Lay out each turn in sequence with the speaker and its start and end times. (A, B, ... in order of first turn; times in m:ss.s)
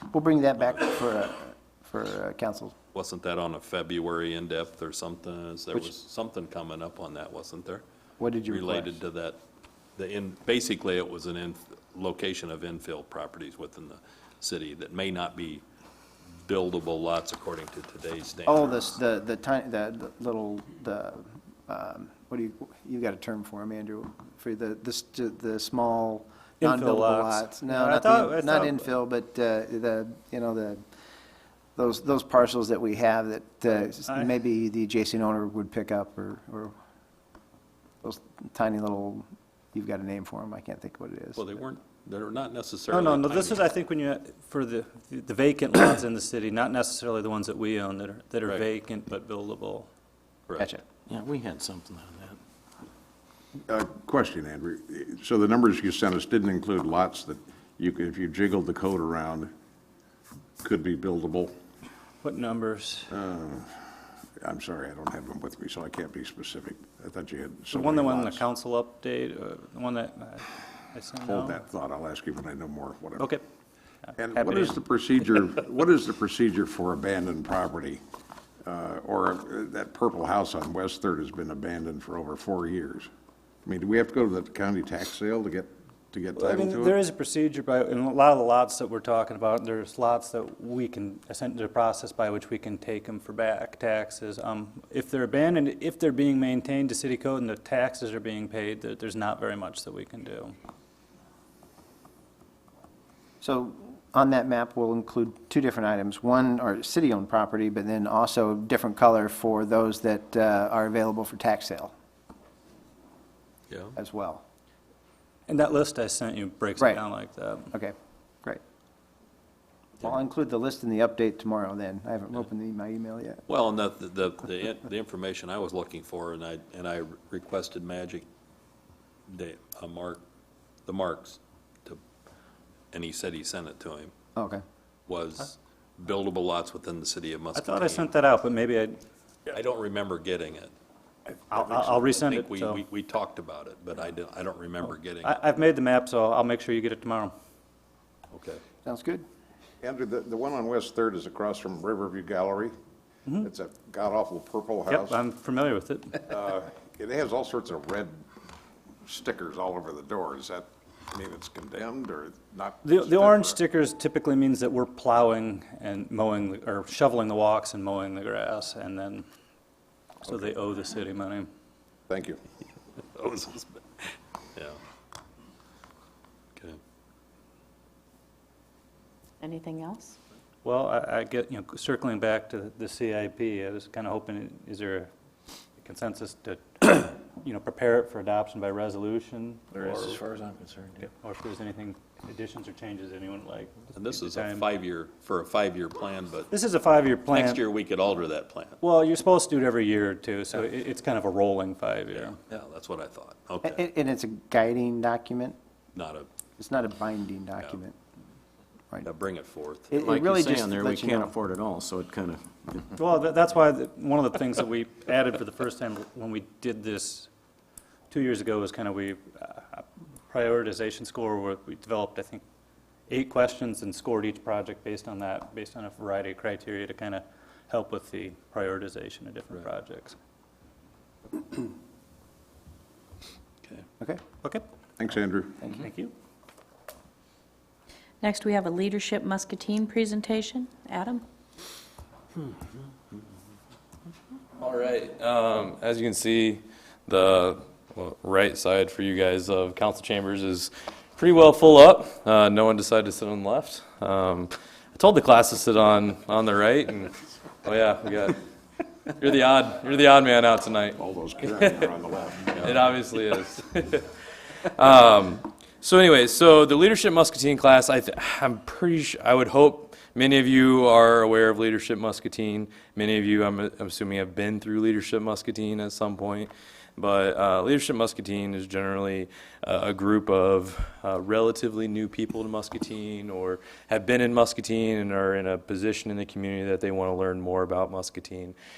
0:00.1-0:02.7 A
0:00.6-0:00.9 B
0:02.9-0:07.8 B
0:08.2-0:09.0 A
0:08.4-0:09.4 B
0:10.0-0:15.6 B
0:16.4-0:19.0 B
0:18.4-0:30.8 A
0:26.6-0:28.9 C
0:31.8-0:36.7 A
0:33.7-0:34.3 C
0:38.0-0:41.4 A
0:41.4-0:43.7 B
0:42.9-0:49.9 C
0:50.5-0:50.8 B
0:51.1-0:52.3 D
0:53.7-0:59.5 E
1:00.6-1:01.5 E
1:02.2-1:03.1 C
1:03.1-1:03.7 E
1:04.4-1:08.5 E
1:07.7-1:11.6 C
1:11.2-1:13.4 E
1:13.2-1:13.4 C
1:14.2-1:18.0 E
1:14.3-1:14.8 C
1:18.7-1:23.1 E
1:23.7-1:27.0 E
1:26.4-1:40.6 C
1:43.4-1:51.9 A
1:53.7-1:54.0 B
1:54.0-1:54.4 A
1:55.5-1:57.7 C
1:57.7-1:58.6 A
2:00.0-2:03.4 A
2:03.5-2:08.2 B
2:09.3-2:10.2 B
2:10.8-2:12.0 B
2:12.9-2:14.1 B
2:14.4-2:14.6 A
2:15.1-2:18.1 B
2:17.5-2:19.0 C
2:19.5-2:20.7 B
2:21.5-2:22.8 C
2:21.5-2:25.4 B
2:25.2-2:27.3 C
2:28.3-2:28.6 B
2:28.8-2:29.2 A
2:29.8-2:32.7 E
2:33.4-2:35.2 E
2:34.9-2:36.4 C
2:36.3-2:38.2 E
2:39.1-2:43.6 E
2:42.8-2:49.2 C
2:50.2-2:51.5 C
2:52.1-2:52.4 E
2:53.0-2:54.8 B
2:59.4-3:00.0 F
3:00.6-3:05.1 C
3:05.8-3:10.2 C
3:09.8-3:10.9 D
3:11.2-3:14.7 C
3:13.9-3:16.5 B
3:16.5-3:17.6 C
3:17.3-3:18.8 B
3:18.8-3:22.4 C
3:22.1-3:23.8 B
3:23.6-3:25.6 A
3:25.9-3:26.3 B
3:26.6-3:27.9 A
3:29.0-3:30.0 B
3:29.9-3:31.3 A
3:30.0-3:32.9 D
3:33.0-3:37.3 C
3:38.1-3:42.4 C
3:43.1-3:50.2 C
3:55.0-3:55.6 E
3:55.7-3:56.1 C
3:58.2-4:01.2 F
4:04.6-4:18.4 G
4:19.2-4:21.8 G
4:21.0-4:22.8 E
4:22.6-4:24.1 G
4:24.7-4:48.6 G